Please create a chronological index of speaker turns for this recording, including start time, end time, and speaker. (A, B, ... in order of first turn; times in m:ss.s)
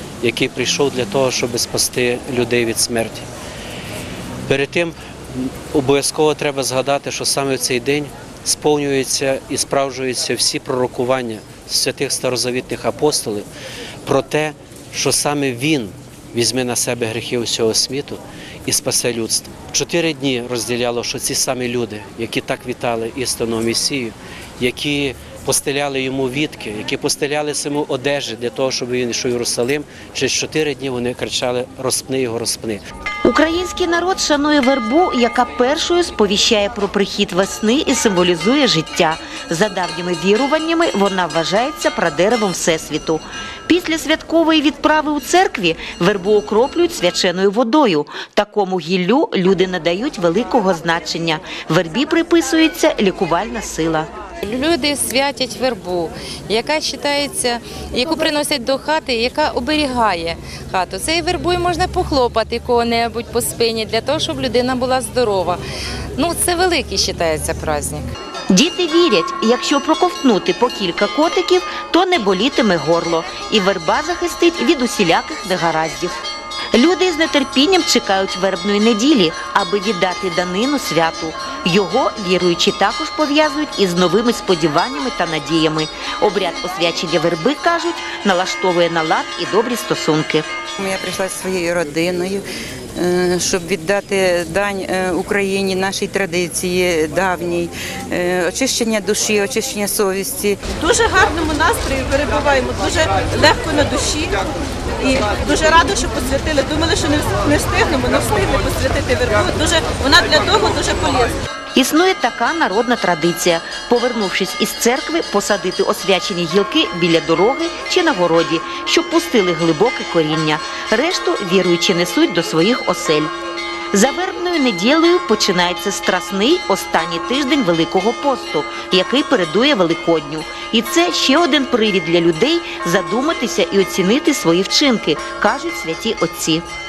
0:00.2-0:03.3 A
0:04.5-0:13.4 A
0:14.0-0:32.8 A
0:33.2-0:54.1 B
0:54.4-1:05.6 C
1:06.2-1:08.1 C
1:08.5-1:16.2 B
1:16.7-1:30.5 B
1:30.8-1:32.4 D
1:33.0-1:40.7 D
1:40.8-1:44.4 E
1:45.0-1:51.3 E
1:51.8-2:03.3 B
2:03.9-2:16.6 B